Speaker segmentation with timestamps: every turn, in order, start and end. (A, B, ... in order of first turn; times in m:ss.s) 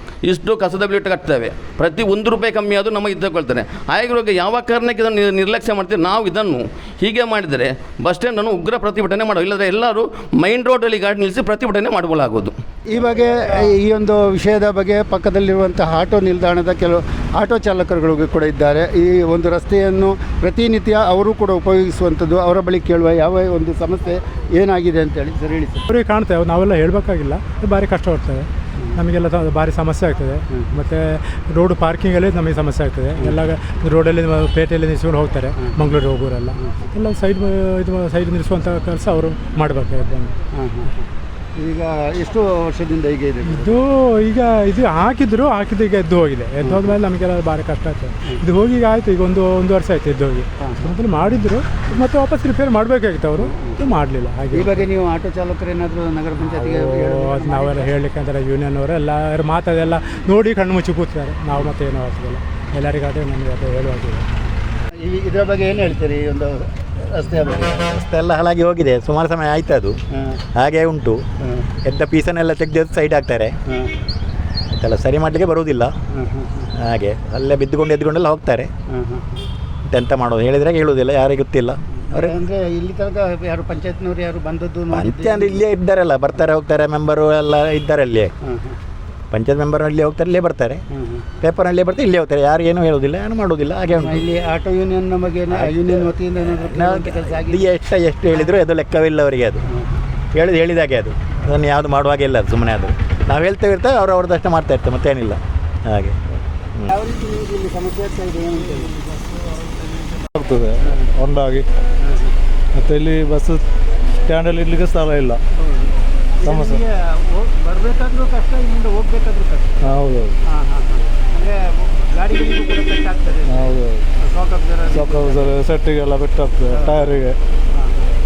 0:00.2-0:12.6 A
0:12.9-0:25.9 B
0:25.9-0:40.4 C
0:35.6-0:35.9 B
0:40.5-0:40.9 B
0:41.6-0:43.7 B
0:43.5-0:54.9 C
0:46.6-0:46.9 B
0:53.4-0:53.8 B
0:54.5-0:57.9 B
0:56.5-1:04.3 C
1:05.0-1:07.8 B
1:07.7-1:10.0 D
1:10.6-1:11.2 D
1:11.8-1:13.6 D
1:14.7-1:15.9 D
1:16.1-1:16.6 B
1:16.7-1:18.7 D
1:18.9-1:19.4 B
1:19.9-1:22.4 D
1:22.1-1:25.6 B
1:24.9-1:28.3 D
1:28.4-1:28.8 B
1:29.3-1:30.8 D
1:30.9-1:31.2 B
1:31.4-1:34.2 D
1:34.0-1:37.6 B
1:35.5-1:39.6 D
1:40.3-1:46.2 D
1:46.9-1:49.0 B
1:50.3-1:51.6 E
1:52.8-1:53.6 E
1:54.2-1:55.4 E
1:56.4-1:56.8 E
1:56.4-1:59.7 B
1:59.8-2:00.4 E
2:00.6-2:05.5 B
2:03.5-2:04.0 E
2:04.9-2:07.4 E